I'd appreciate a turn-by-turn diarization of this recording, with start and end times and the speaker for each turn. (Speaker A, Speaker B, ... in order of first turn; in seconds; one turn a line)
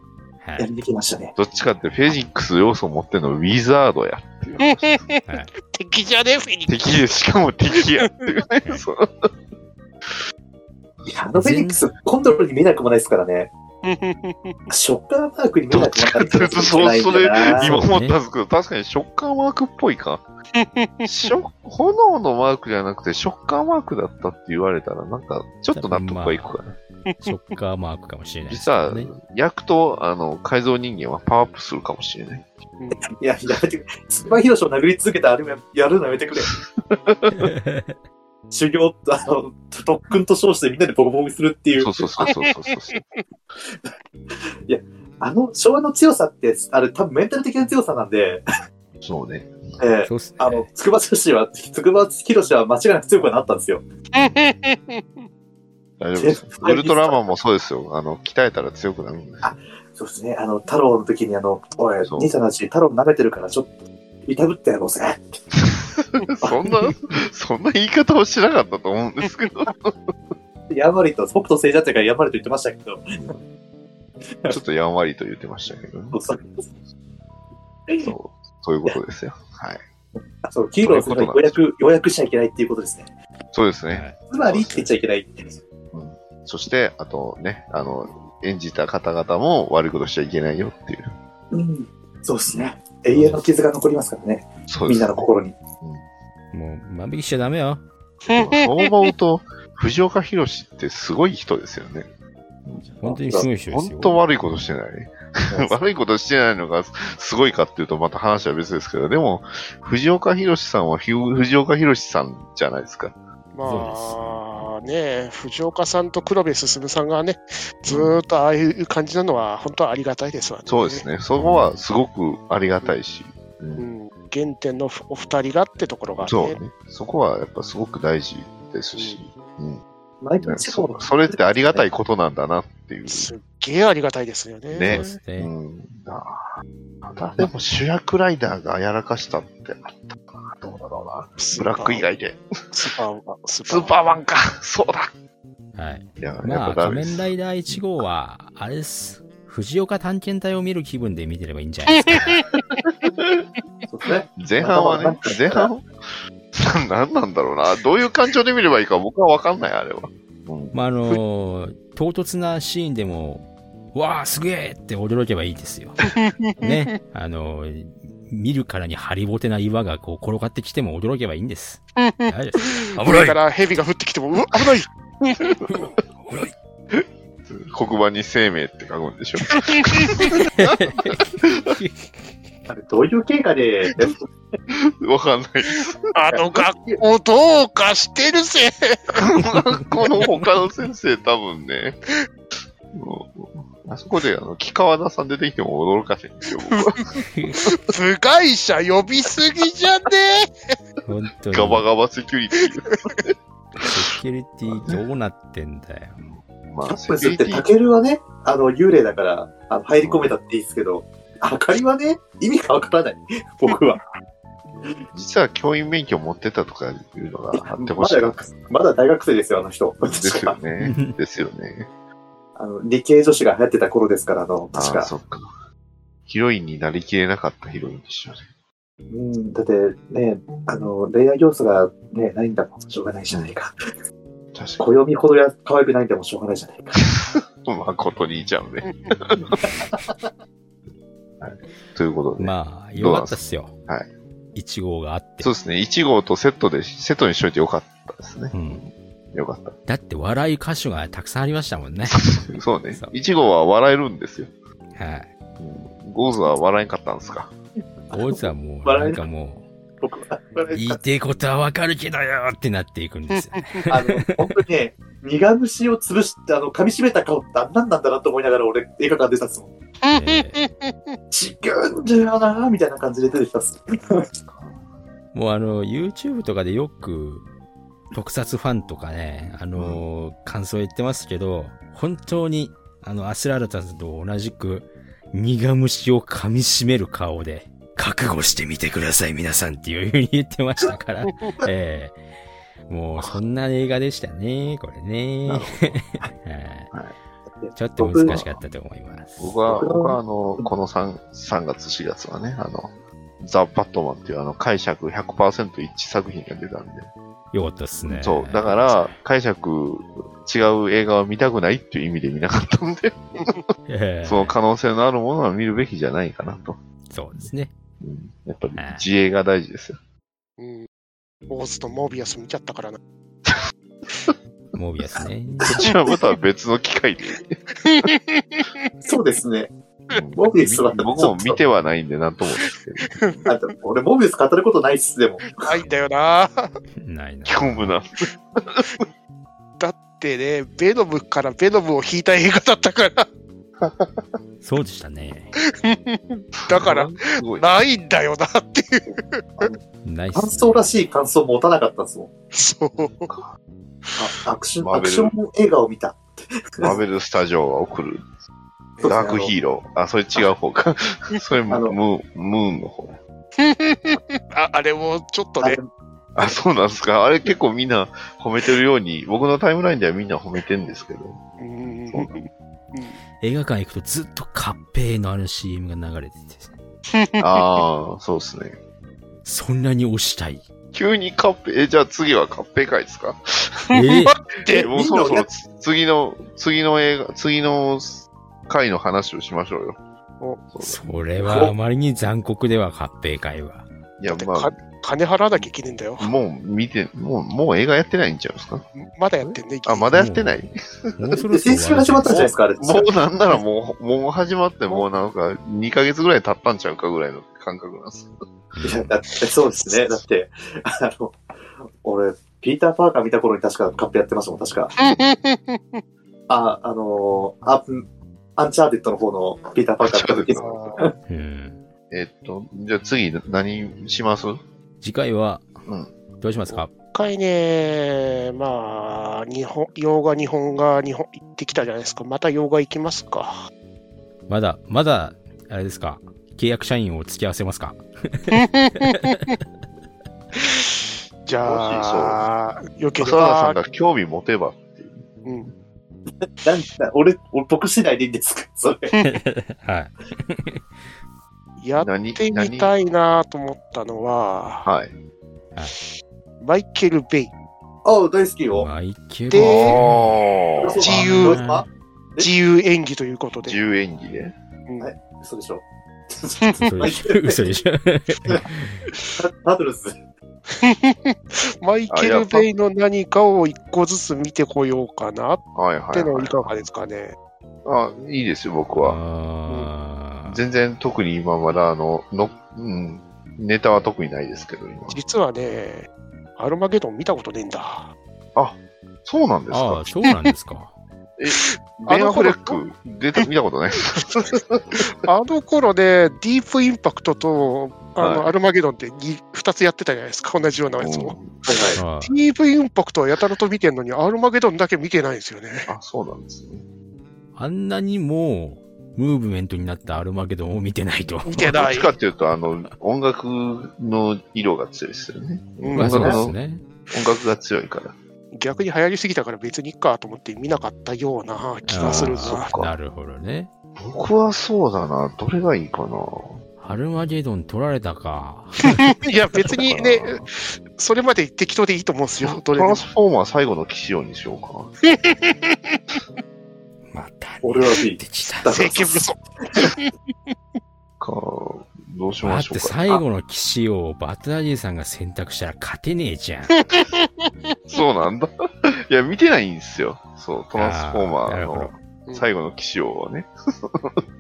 Speaker A: 0.4-0.7
Speaker B: 0.6-1.3
Speaker C: 1.4-5.0
Speaker D: 4.6-6.8
Speaker A: 5.3-5.5
Speaker C: 6.7-9.3
Speaker B: 11.1-13.5
Speaker A: 11.3-11.8
Speaker D: 13.8-14.7
Speaker B: 14.7-17.8
Speaker C: 15.7-20.2
Speaker A: 17.6-18.2
Speaker D: 20.6-21.3
Speaker C: 21.1-26.7
Speaker A: 25.7-26.6
Speaker A: 27.2-29.1
Speaker C: 28.5-32.5
Speaker D: 32.8-33.1
Speaker B: 33.2-36.5
Speaker C: 36.8-37.5
Speaker A: 37.3-38.0
Speaker B: 38.5-42.2
Speaker C: 41.8-43.0
Speaker D: 42.2-43.0
Speaker B: 44.7-48.4
Speaker C: 49.0-49.6
Speaker B: 49.8-53.9
Speaker A: 50.0-50.7
Speaker D: 54.1-55.2
Speaker C: 56.0-59.5
Speaker B: 56.2-57.2
Speaker B: 59.4-63.8
Speaker C: 62.0-62.3
Speaker B: 64.3-65.5
Speaker C: 65.6-70.1
Speaker B: 66.4-66.7
Speaker B: 70.7-73.2
Speaker B: 74.3-74.6
Speaker C: 74.5-76.2
Speaker B: 76.1-76.7
Speaker C: 78.0-79.8
Speaker B: 80.4-83.1
Speaker C: 80.8-81.6
Speaker C: 83.5-84.9
Speaker A: 83.9-84.2
Speaker B: 84.3-85.6
Speaker C: 85.9-91.1
Speaker B: 91.5-95.6
Speaker A: 93.1-93.4
Speaker C: 94.7-95.3
Speaker A: 96.5-97.8
Speaker D: 98.3-99.1
Speaker C: 98.3-102.1
Speaker B: 102.9-103.5
Speaker A: 103.0-104.2
Speaker C: 103.4-113.2
Speaker B: 105.5-105.8
Speaker D: 113.5-121.1
Speaker A: 113.6-114.4
Speaker C: 117.9-118.2
Speaker C: 120.7-123.9
Speaker D: 123.8-126.6
Speaker C: 126.2-129.8
Speaker B: 130.2-131.8
Speaker C: 130.4-133.3
Speaker D: 133.1-135.2
Speaker C: 134.7-136.5
Speaker A: 134.8-135.5
Speaker C: 137.0-142.4
Speaker D: 141.4-142.1
Speaker D: 142.7-144.0
Speaker C: 143.7-145.1
Speaker A: 145.8-152.3
Speaker C: 146.2-147.8
Speaker D: 152.0-152.4
Speaker C: 153.1-153.3
Speaker B: 153.9-155.7
Speaker C: 154.4-155.9
Speaker C: 156.5-160.7
Speaker A: 160.7-173.4
Speaker D: 166.1-166.9
Speaker D: 172.0-175.6
Speaker A: 175.7-176.5
Speaker C: 176.9-181.7
Speaker D: 179.7-180.3
Speaker A: 180.5-182.1
Speaker B: 182.7-184.3
Speaker C: 184.7-186.1
Speaker D: 186.1-189.2
Speaker B: 186.3-187.0
Speaker C: 189.2-192.0
Speaker C: 192.9-197.1
Speaker D: 196.7-197.0
Speaker A: 197.3-197.6
Speaker D: 197.6-200.5
Speaker A: 201.1-201.8
Speaker C: 201.5-203.8
Speaker A: 203.8-206.2
Speaker C: 204.7-205.0
Speaker C: 206.7-207.7
Speaker B: 206.9-214.0
Speaker C: 210.0-210.4
Speaker C: 215.1-218.5
Speaker B: 217.5-220.6
Speaker C: 220.0-221.9
Speaker A: 220.8-221.2
Speaker B: 222.6-225.1
Speaker C: 224.7-225.5
Speaker C: 226.3-228.5
Speaker B: 229.1-233.7
Speaker C: 234.6-234.8
Speaker B: 234.8-236.9
Speaker C: 237.0-239.7
Speaker D: 238.8-239.1
Speaker B: 239.6-240.3
Speaker C: 241.4-244.1
Speaker A: 242.4-243.7
Speaker A: 244.6-245.5
Speaker C: 245.4-249.8
Speaker A: 248.5-248.8
Speaker A: 249.9-252.3
Speaker C: 252.1-254.5
Speaker A: 254.9-255.3
Speaker C: 255.6-257.5
Speaker B: 258.1-259.2
Speaker A: 258.1-259.7
Speaker B: 260.0-261.0
Speaker A: 260.7-264.4
Speaker D: 263.3-263.8
Speaker B: 263.9-269.7
Speaker D: 270.0-271.2
Speaker A: 270.1-270.6
Speaker B: 271.3-274.4
Speaker A: 275.3-277.4
Speaker A: 278.1-292.2
Speaker C: 279.8-280.0
Speaker D: 291.3-291.5
Speaker A: 292.9-296.9
Speaker C: 295.5-296.1
Speaker B: 297.6-298.4
Speaker A: 297.8-299.5
Speaker C: 298.3-298.6
Speaker C: 299.4-302.9
Speaker B: 299.7-300.7
Speaker C: 303.4-307.1
Speaker A: 307.5-309.2
Speaker C: 308.1-313.6
Speaker A: 313.9-314.5
Speaker C: 314.2-316.8
Speaker A: 317.1-317.7
Speaker C: 318.0-320.0
Speaker A: 318.8-319.1
Speaker D: 320.6-320.9
Speaker D: 321.5-323.0
Speaker A: 324.8-325.9
Speaker C: 325.7-327.6
Speaker D: 327.9-329.1
Speaker B: 329.1-329.7
Speaker C: 330.1-333.5
Speaker B: 330.4-331.6
Speaker B: 333.5-335.9
Speaker D: 335.4-336.7
Speaker A: 337.0-337.9
Speaker C: 337.5-339.0
Speaker D: 339.8-343.3
Speaker C: 343.8-344.1
Speaker A: 344.6-345.5
Speaker D: 345.8-349.7
Speaker C: 346.6-347.6
Speaker A: 350.0-350.9
Speaker B: 350.3-352.3
Speaker D: 352.5-353.3
Speaker B: 354.2-357.0
Speaker C: 354.8-355.4
Speaker C: 356.8-358.2
Speaker B: 359.0-359.5
Speaker C: 359.0-363.2
Speaker B: 361.7-362.0
Speaker D: 363.6-365.8
Speaker B: 365.6-365.9
Speaker C: 366.4-371.4
Speaker D: 371.6-373.2
Speaker C: 372.1-372.4
Speaker A: 373.4-376.8
Speaker D: 377.1-377.6
Speaker C: 377.4-378.8
Speaker A: 379.4-380.6
Speaker C: 380.9-383.8
Speaker D: 383.9-384.9
Speaker A: 383.9-384.4
Speaker B: 384.7-385.5
Speaker C: 384.8-390.0
Speaker C: 390.7-391.0
Speaker A: 390.8-393.9
Speaker B: 391.4-391.7
Speaker C: 394.2-394.7
Speaker D: 394.3-396.3
Speaker C: 395.6-398.9
Speaker D: 399.0-400.1
Speaker C: 399.4-401.4
Speaker A: 400.1-400.6
Speaker A: 401.2-402.6
Speaker B: 401.4-403.1
Speaker C: 402.3-408.3
Speaker A: 408.7-409.1
Speaker B: 408.8-411.4
Speaker B: 412.0-414.9
Speaker D: 415.0-416.0
Speaker B: 416.5-418.1
Speaker B: 418.6-421.1
Speaker C: 420.0-421.0
Speaker D: 420.6-421.1
Speaker A: 421.3-421.8
Speaker C: 422.1-424.6
Speaker A: 425.0-425.7
Speaker C: 425.9-426.1
Speaker A: 426.4-426.9
Speaker D: 427.1-433.6
Speaker A: 434.5-439.3
Speaker D: 438.5-439.5
Speaker D: 440.6-443.8
Speaker C: 441.6-442.4
Speaker C: 443.2-445.3
Speaker D: 445.4-445.7
Speaker B: 446.6-449.1
Speaker D: 449.1-449.4
Speaker A: 449.2-450.8
Speaker D: 451.8-454.9
Speaker C: 452.0-452.9
Speaker C: 454.9-455.1
Speaker D: 456.6-457.5
Speaker B: 458.1-458.9
Speaker A: 458.7-460.4
Speaker D: 459.5-460.0
Speaker C: 459.6-461.0
Speaker B: 460.8-462.5
Speaker D: 461.0-461.6
Speaker A: 461.0-461.9
Speaker D: 462.4-463.8
Speaker C: 463.7-464.5
Speaker B: 465.0-467.6
Speaker D: 466.6-466.9
Speaker A: 466.7-469.1
Speaker B: 469.4-470.1
Speaker D: 470.7-477.4
Speaker C: 472.1-472.7
Speaker C: 475.8-476.6
Speaker C: 477.9-479.2
Speaker A: 479.0-480.6
Speaker C: 480.5-485.2
Speaker D: 485.1-488.1
Speaker C: 488.6-490.1
Speaker A: 489.7-490.9
Speaker C: 491.4-495.0
Speaker D: 491.5-492.8
Speaker D: 495.2-501.4
Speaker C: 498.2-498.5
Speaker C: 501.0-501.6
Speaker B: 501.6-502.0
Speaker A: 501.9-502.3
Speaker D: 502.2-505.9
Speaker C: 505.9-506.8
Speaker A: 507.6-511.8
Speaker D: 511.5-512.1
Speaker C: 511.7-516.6
Speaker D: 515.8-516.4
Speaker A: 516.0-516.8
Speaker C: 517.1-518.1
Speaker D: 518.5-522.7
Speaker A: 521.9-523.7
Speaker C: 522.0-523.0
Speaker C: 524.0-526.6
Speaker A: 526.8-529.0
Speaker D: 528.9-533.0
Speaker C: 529.7-530.5
Speaker C: 532.4-534.9
Speaker D: 535.1-536.2
Speaker A: 537.1-539.0
Speaker B: 537.6-539.0
Speaker D: 538.7-540.1
Speaker C: 541.2-543.2
Speaker A: 542.4-546.8
Speaker D: 546.8-547.5
Speaker C: 547.9-548.5
Speaker C: 549.1-554.2
Speaker A: 550.8-552.0